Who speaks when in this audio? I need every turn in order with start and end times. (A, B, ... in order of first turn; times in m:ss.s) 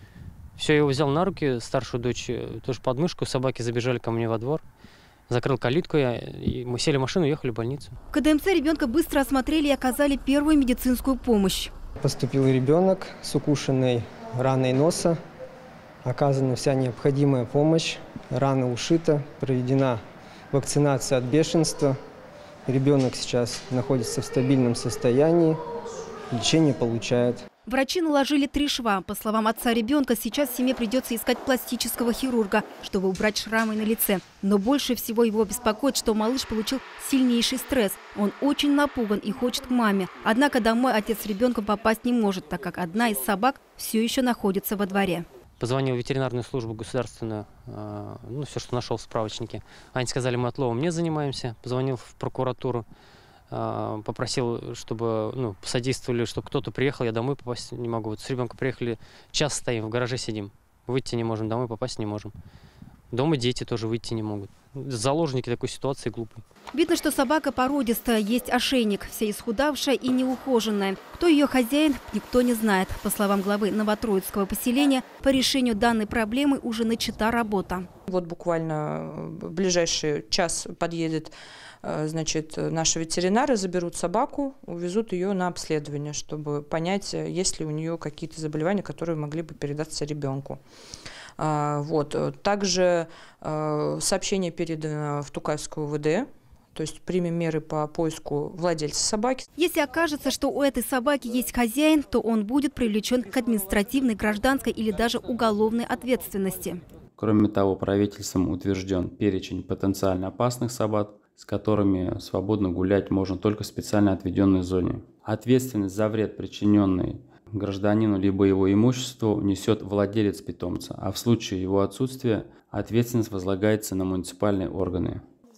0:00.6-0:04.6 A
0:05.3-0:08.0 A
0:08.1-0:11.7 B
0:12.0-0:15.2 C
0:16.0-0:22.0 C
0:22.7-0:25.6 C
0:26.3-0:27.5 C
0:27.7-0:45.2 B
0:45.6-0:52.8 A
0:53.5-1:02.3 A
1:03.1-1:06.4 A
1:06.7-1:17.9 B
1:18.1-1:21.3 D
1:21.8-1:30.6 D
1:31.4-1:39.4 D
1:39.6-1:46.8 B
1:47.2-2:05.2 E